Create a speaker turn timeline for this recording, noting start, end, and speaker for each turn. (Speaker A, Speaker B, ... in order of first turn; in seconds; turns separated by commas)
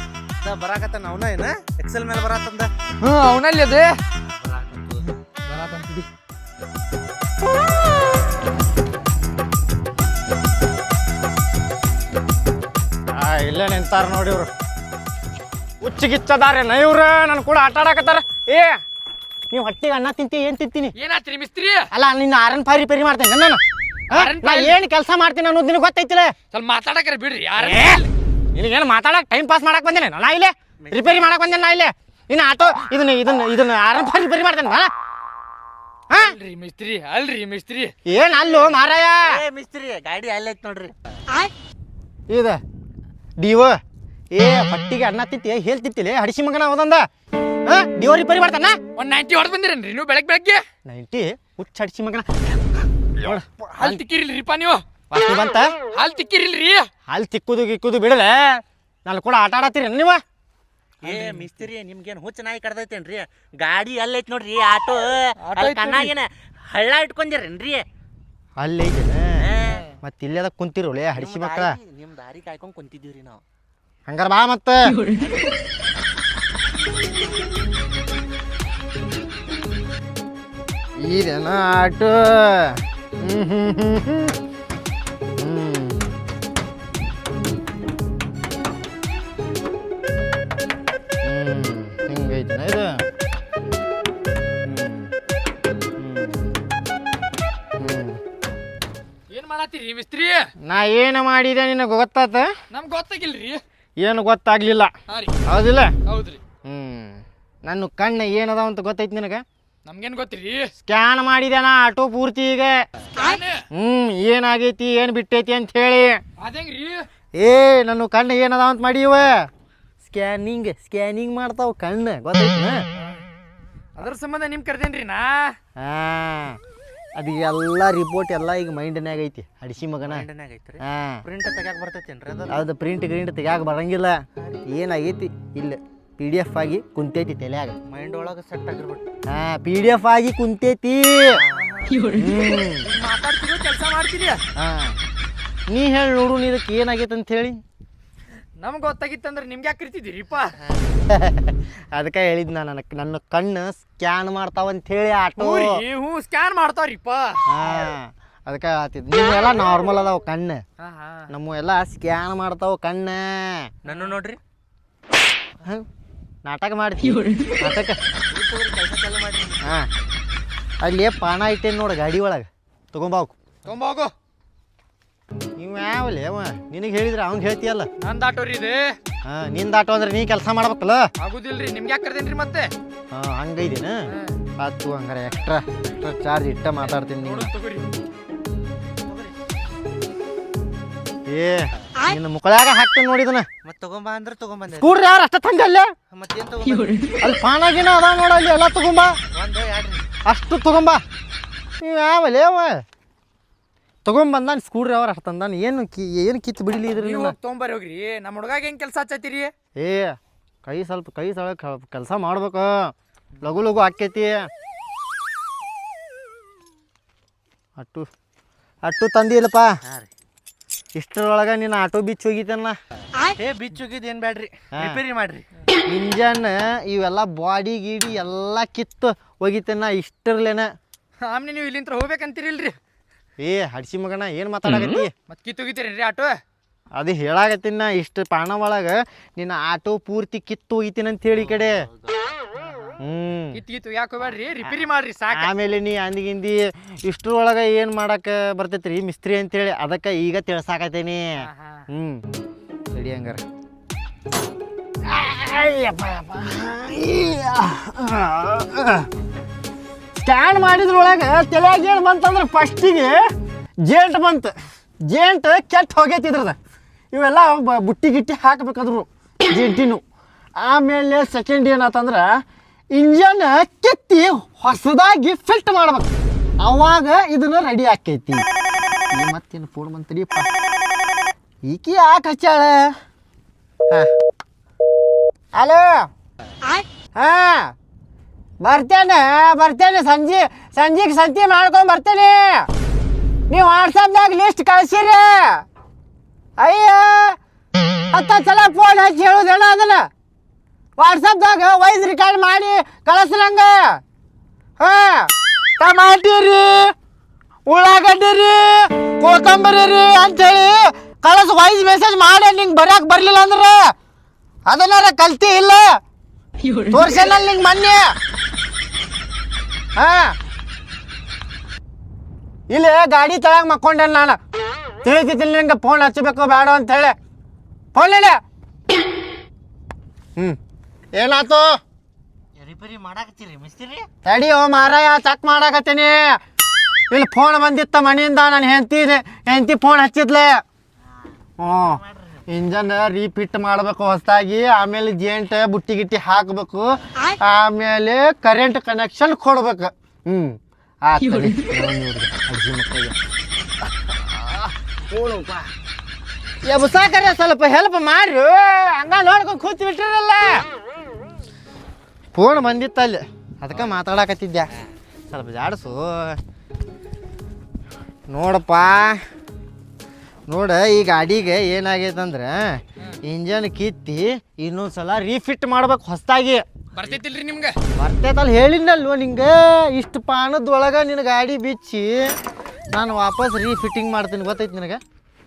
Speaker A: 0.4-2.7, Speaker B: 3.0-3.9, Speaker A: 4.4-5.1, Speaker B: 5.5-6.1, Speaker C: 13.1-14.5, Speaker C: 15.8-18.8, Speaker C: 19.5-20.9, Speaker B: 21.0-21.9, Speaker C: 21.9-26.3, Speaker B: 24.1-24.8, Speaker B: 26.5-28.1, Speaker C: 27.6-28.0, Speaker C: 28.5-34.9, Speaker A: 30.9-31.5, Speaker B: 36.2-37.9, Speaker C: 38.1-39.4, Speaker A: 38.4-40.9, Speaker C: 42.3-42.6, Speaker C: 43.4-43.8, Speaker C: 44.3-47.1, Speaker C: 47.6-48.8, Speaker B: 49.0-50.6, Speaker C: 50.9-54.0, Speaker B: 53.8-54.8, Speaker C: 55.1-55.7, Speaker B: 55.9-56.9, Speaker C: 57.1-60.2, Speaker A: 61.0-67.8, Speaker B: 65.4-66.1, Speaker C: 68.6-69.4, Speaker A: 69.4-69.9, Speaker C: 70.0-71.8, Speaker A: 71.1-73.4, Speaker C: 74.1-75.0, Speaker C: 81.0-84.4, Speaker C: 85.4-86.0, Speaker C: 91.2-92.9, Speaker C: 94.6-95.1, Speaker C: 96.0-96.5, Speaker C: 97.8-98.2, Speaker B: 99.3-100.5, Speaker C: 100.6-102.5, Speaker B: 102.7-103.6, Speaker C: 104.0-104.9, Speaker B: 105.1-105.4, Speaker C: 105.5-105.9, Speaker B: 106.1-106.4, Speaker C: 106.7-109.4, Speaker B: 109.8-110.7, Speaker C: 110.8-112.8, Speaker B: 113.2-113.7, Speaker C: 113.7-116.2, Speaker B: 116.4-117.1, Speaker C: 117.4-119.5, Speaker C: 120.0-122.8, Speaker B: 124.0-125.5, Speaker C: 125.8-126.6, Speaker C: 127.2-130.3, Speaker A: 130.0-132.7, Speaker C: 130.8-131.2, Speaker C: 132.5-137.8, Speaker A: 134.4-134.7, Speaker A: 137.9-139.0, Speaker C: 139.3-141.4, Speaker A: 141.3-142.1, Speaker C: 142.1-142.9, Speaker B: 142.8-144.4, Speaker C: 144.6-145.0, Speaker C: 145.7-147.6, Speaker B: 148.6-150.5, Speaker C: 151.0-155.8, Speaker B: 155.4-157.4, Speaker C: 157.5-160.6, Speaker B: 160.8-161.3, Speaker C: 161.3-163.7, Speaker A: 163.8-164.4, Speaker C: 166.4-168.0, Speaker A: 168.3-169.8, Speaker C: 169.6-169.9, Speaker C: 170.8-173.3, Speaker B: 173.7-174.1, Speaker C: 175.6-177.9, Speaker B: 178.0-179.0, Speaker C: 179.2-181.1, Speaker B: 181.2-182.7, Speaker C: 183.1-184.0, Speaker B: 184.1-184.4, Speaker C: 184.6-187.5, Speaker B: 187.2-187.9, Speaker C: 191.3-193.5, Speaker A: 193.6-195.0, Speaker C: 194.8-195.9, Speaker A: 196.1-197.1, Speaker C: 197.2-199.2, Speaker A: 199.3-200.0, Speaker C: 200.2-201.0, Speaker C: 201.8-202.8, Speaker C: 204.1-207.3, Speaker B: 206.9-209.5, Speaker C: 209.8-214.5, Speaker C: 217.8-218.1, Speaker C: 218.8-219.8, Speaker C: 220.9-222.8, Speaker A: 223.4-225.4, Speaker C: 224.7-225.0, Speaker C: 225.9-230.7, Speaker B: 231.2-232.8, Speaker C: 233.4-235.1, Speaker B: 235.3-236.4, Speaker C: 236.9-241.8, Speaker A: 241.5-242.1, Speaker C: 243.0-243.6, Speaker B: 243.5-245.5, Speaker C: 245.3-252.2, Speaker B: 251.4-251.8, Speaker C: 252.9-253.4, Speaker C: 255.1-259.1, Speaker C: 260.2-263.2, Speaker C: 263.8-264.5, Speaker C: 265.1-266.6, Speaker C: 267.1-270.0, Speaker C: 270.6-272.4, Speaker C: 272.9-276.1, Speaker C: 276.6-278.5, Speaker C: 279.1-280.5, Speaker C: 281.7-282.9, Speaker C: 285.6-286.1, Speaker C: 287.2-287.7, Speaker C: 288.6-292.7, Speaker C: 293.5-295.6, Speaker C: 296.6-297.4, Speaker C: 298.1-300.1, Speaker C: 301.0-304.0, Speaker C: 304.8-306.9, Speaker C: 307.7-313.9, Speaker C: 314.7-316.0, Speaker C: 316.9-318.1, Speaker C: 320.0-320.4, Speaker C: 322.7-324.4, Speaker C: 325.0-327.2, Speaker C: 327.9-328.4, Speaker C: 331.1-331.7, Speaker A: 332.6-334.1, Speaker C: 334.2-336.4, Speaker C: 337.1-340.6, Speaker C: 341.6-353.2, Speaker C: 354.0-355.7, Speaker C: 356.6-360.6, Speaker C: 362.4-364.7, Speaker C: 365.3-366.4, Speaker C: 368.3-369.2, Speaker C: 370.5-376.6, Speaker B: 376.9-377.8, Speaker C: 378.0-382.2, Speaker C: 382.9-385.0